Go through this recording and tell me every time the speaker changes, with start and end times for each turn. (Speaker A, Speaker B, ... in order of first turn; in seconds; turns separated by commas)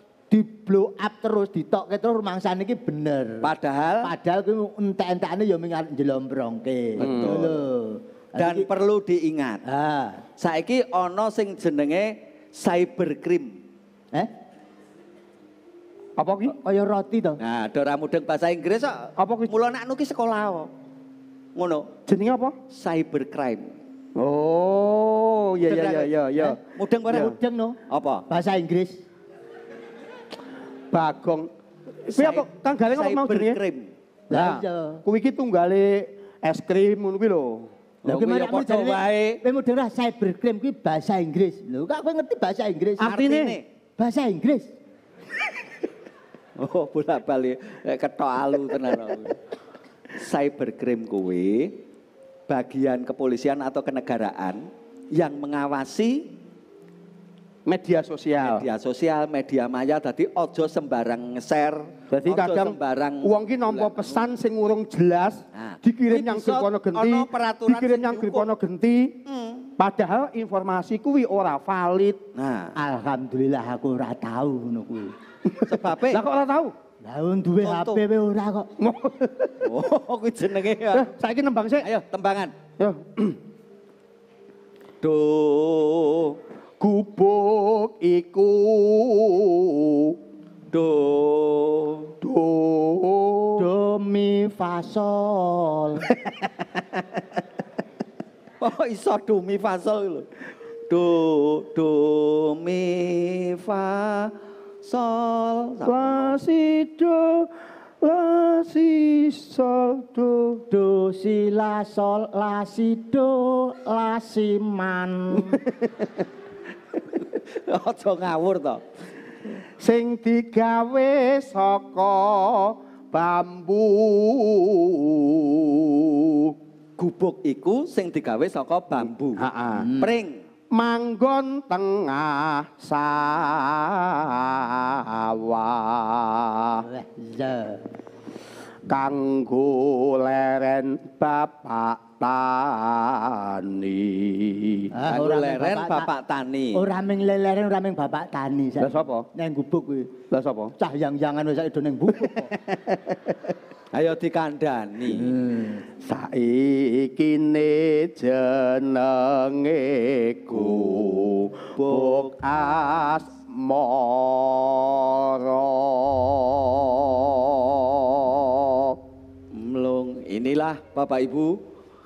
Speaker A: 0.3-3.5, Speaker B: 3.4-4.1, Speaker A: 4.0-8.7, Speaker B: 7.0-7.5, Speaker C: 7.0-7.5, Speaker B: 8.3-9.6, Speaker A: 9.7-10.2, Speaker B: 10.4-13.5, Speaker C: 16.2-16.5, Speaker A: 16.4-17.4, Speaker B: 17.4-20.7, Speaker C: 19.2-19.5, Speaker B: 21.6-21.9, Speaker C: 22.1-22.5, Speaker B: 22.7-23.7, Speaker C: 24.1-26.6, Speaker B: 25.7-26.0, Speaker B: 26.7-27.3, Speaker C: 27.1-27.3, Speaker A: 27.1-27.8, Speaker B: 27.9-28.2, Speaker A: 28.3-29.0, Speaker C: 30.9-31.5, Speaker B: 32.1-33.9, Speaker C: 32.2-33.6, Speaker A: 34.3-35.0, Speaker C: 34.3-37.6, Speaker B: 38.0-39.4, Speaker A: 38.0-43.2, Speaker C: 43.0-43.5, Speaker B: 43.0-43.6, Speaker A: 44.0-44.7, Speaker B: 46.6-49.4, Speaker B: 50.2-51.7, Speaker B: 52.5-54.6, Speaker B: 55.1-56.3, Speaker C: 57.7-58.6, Speaker B: 58.4-64.3, Speaker C: 62.1-69.1, Speaker B: 65.5-68.5, Speaker B: 69.2-69.7, Speaker C: 69.8-72.2, Speaker B: 72.3-72.7, Speaker A: 72.8-75.1, Speaker C: 75.5-76.7, Speaker B: 75.7-76.2, Speaker A: 77.0-78.7, Speaker B: 77.6-78.0, Speaker C: 78.8-79.7, Speaker B: 79.6-81.1, Speaker C: 80.9-81.9, Speaker B: 81.8-82.5, Speaker C: 82.8-83.4, Speaker B: 85.0-86.4, Speaker C: 86.8-90.2, Speaker B: 90.7-92.1, Speaker C: 92.2-93.6, Speaker A: 93.6-96.1, Speaker B: 98.6-100.3, Speaker B: 100.9-106.4, Speaker C: 105.8-107.5, Speaker C: 108.0-110.6, Speaker A: 110.7-115.6, Speaker B: 117.7-118.8, Speaker C: 119.8-126.5, Speaker B: 127.0-129.4, Speaker C: 129.4-129.9, Speaker A: 129.8-130.2, Speaker B: 130.0-130.4, Speaker C: 130.7-136.9, Speaker A: 136.8-137.8, Speaker C: 138.9-144.9, Speaker A: 144.9-146.1, Speaker B: 145.1-146.8, Speaker A: 146.7-150.1, Speaker C: 148.8-149.3, Speaker C: 150.3-150.7, Speaker A: 150.8-152.5, Speaker C: 152.2-153.1, Speaker B: 153.9-155.3, Speaker A: 155.1-155.8, Speaker C: 156.0-169.0, Speaker B: 160.5-161.1, Speaker B: 161.8-162.3, Speaker B: 169.5-171.6